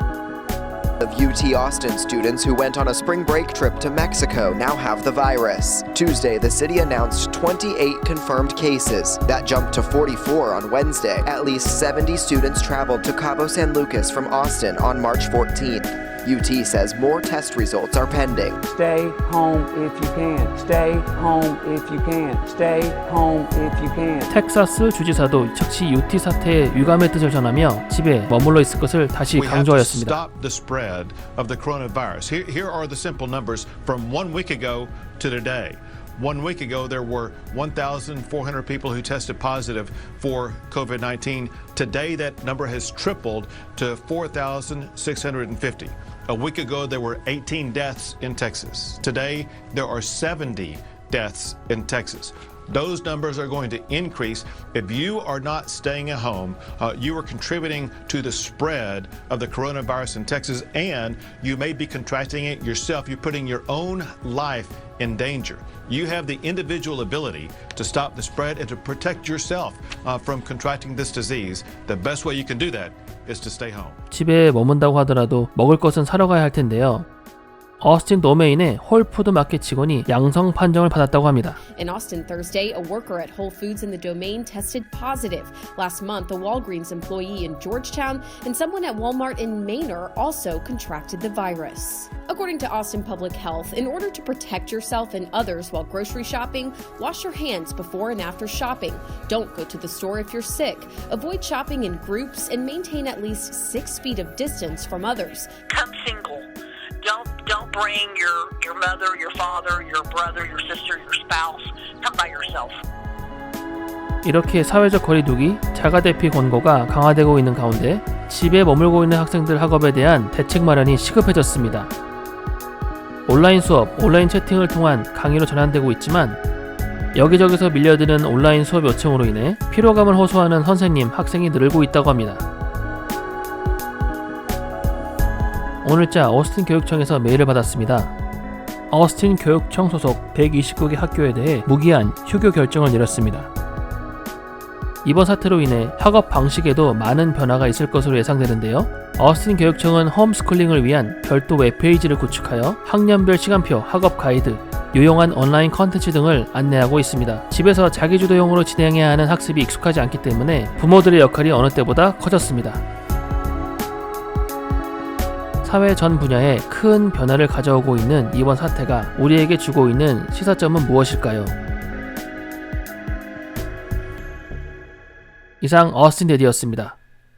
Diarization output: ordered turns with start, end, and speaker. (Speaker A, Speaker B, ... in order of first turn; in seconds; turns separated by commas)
Speaker A: 1.0-18.6, Speaker B: 18.6-24.3, Speaker C: 24.3-30.2, Speaker D: 29.3-74.0, Speaker C: 74.1-77.1, Speaker C: 77.8-81.6, Speaker E: 81.7-105.5, Speaker F: 105.7-106.5, Speaker F: 107.0-112.8, Speaker C: 114.2-121.9, Speaker C: 123.3-126.4, Speaker C: 127.1-132.4, Speaker C: 135.8-138.1, Speaker C: 138.9-143.5, Speaker C: 145.0-162.8, Speaker C: 165.6-171.5, Speaker C: 175.6-177.0